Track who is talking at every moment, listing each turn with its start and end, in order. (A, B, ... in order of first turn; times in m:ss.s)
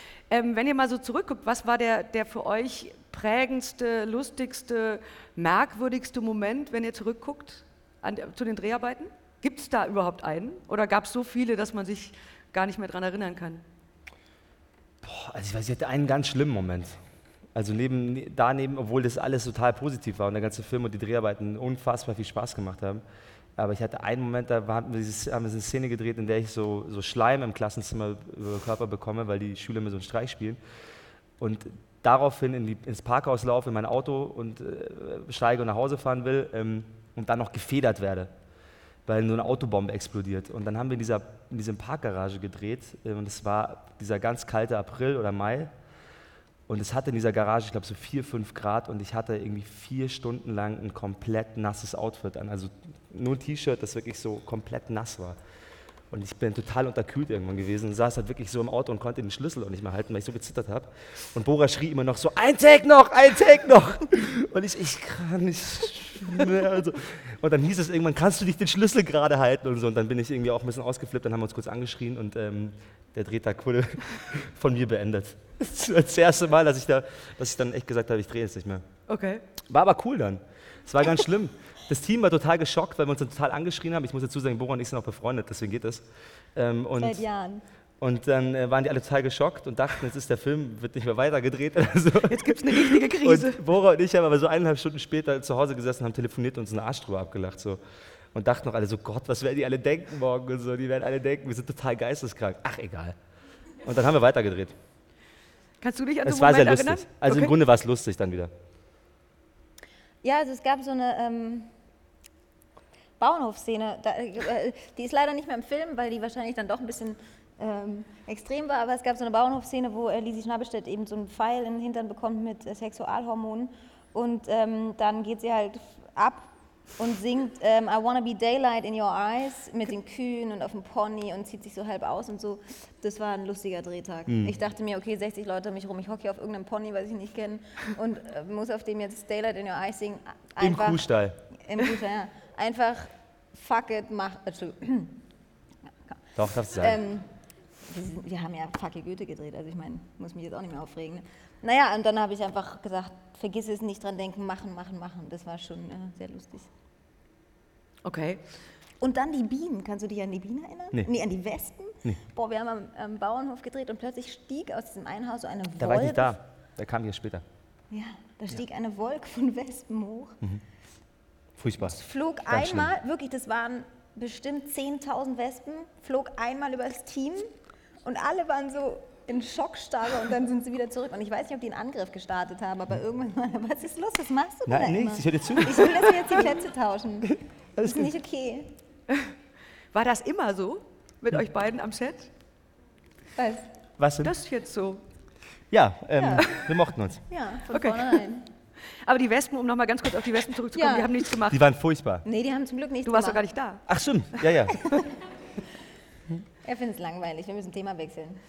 0:00.3-0:13.6 A
0:15.0-0:17.0 B
0:17.5-0:23.0 B
0:23.6-0:30.6 B
0:31.4-0:38.3 B
0:39.0-0:45.7 B
0:46.7-0:55.4 B
0:56.1-1:18.8 B
1:19.1-1:19.4 A
1:19.7-1:26.0 B
1:26.5-1:27.2 B
1:27.0-1:27.6 C
1:28.0-1:37.8 B
1:32.3-1:33.6 A
1:38.3-1:43.2 B
1:43.8-1:44.7 B
1:45.8-1:47.5 A
1:46.2-1:48.5 B
1:50.2-1:51.7 C
1:53.2-2:25.2 C
2:14.3-2:14.5 B
2:20.6-2:21.4 B
2:26.4-2:27.0 B
2:26.7-2:27.3 C
2:27.8-2:36.7 C
2:38.0-2:38.4 A
2:39.0-2:46.4 C
2:45.8-2:47.4 B
2:47.9-2:50.4 C
2:51.6-2:52.0 B
2:51.8-2:57.5 C
2:52.5-2:52.9 B
2:58.0-3:08.7 C
3:04.7-3:06.3 B
3:07.8-3:08.1 B
3:09.9-3:12.3 A
3:13.4-3:13.6 C
3:14.0-3:14.3 B
3:14.2-3:15.0 A
3:15.7-3:17.2 B
3:16.2-3:16.4 C
3:17.3-3:18.4 C
3:17.7-3:18.2 A
3:19.0-3:21.6 A
3:20.7-3:21.1 C
3:21.5-3:22.2 B
3:22.2-3:23.4 C
3:23.0-3:23.8 A
3:23.9-3:24.8 B
3:26.6-3:28.4 C